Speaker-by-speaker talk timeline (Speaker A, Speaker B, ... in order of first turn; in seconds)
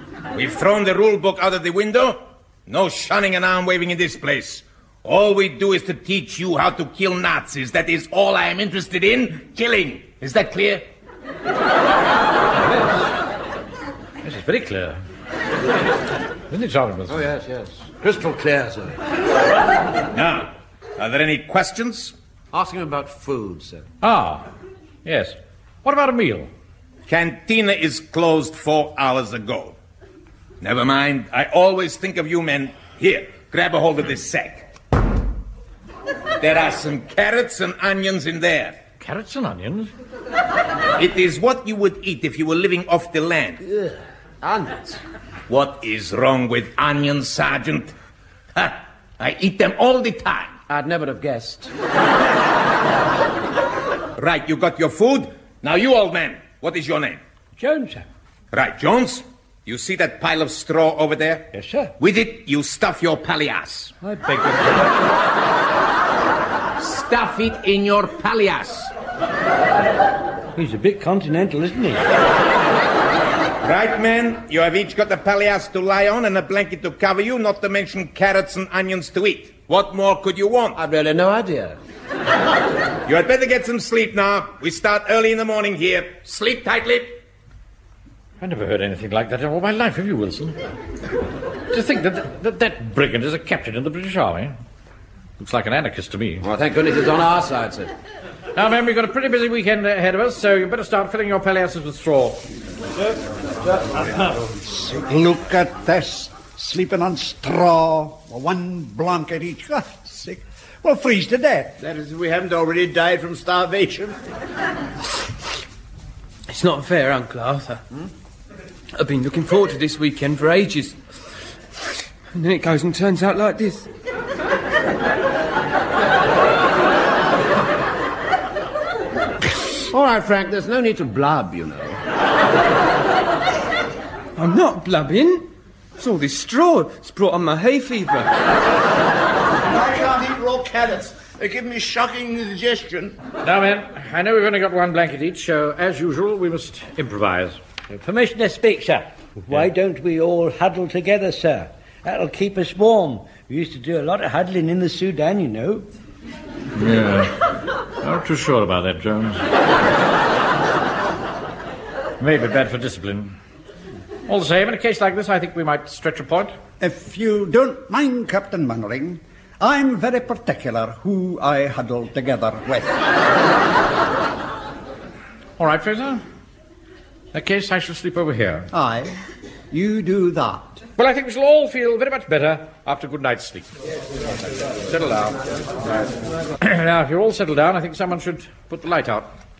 Speaker A: 0.3-10.8, 20.1-22.1, 27.1-29.8, 30.6-34.7, 36.4-38.8, 41.0-43.6, 45.5-47.9, 48.5-50.5, 54.2-57.2, 58.5-63.9, 66.8-68.9, 73.6-80.8, 83.0-87.1
Speaker B: 14.2-15.0, 16.5-17.2, 24.0-24.5, 25.0-26.5, 39.0-39.9, 88.4-90.6, 91.7-94.5, 95.4-96.5, 98.5-102.4, 143.4-147.6, 156.8-157.3, 158.0-159.4, 162.2-163.3, 164.3-166.6, 175.6-176.2, 177.3-178.7, 181.0-183.7, 184.9-185.4, 186.6-189.3
Speaker C: 17.1-19.0, 22.5-23.9, 43.7-45.0, 50.7-51.7, 80.8-81.8, 96.4-97.9, 129.9-132.0
Speaker D: 57.6-58.0, 61.5-61.9, 64.0-64.9, 70.5-72.0, 147.9-155.9
Speaker E: 104.2-111.8, 166.8-172.9, 178.7-179.1, 179.7-180.8
Speaker F: 111.8-114.2, 139.6-143.2
Speaker G: 116.5-117.8, 119.0-121.0, 122.3-123.9, 134.3-138.3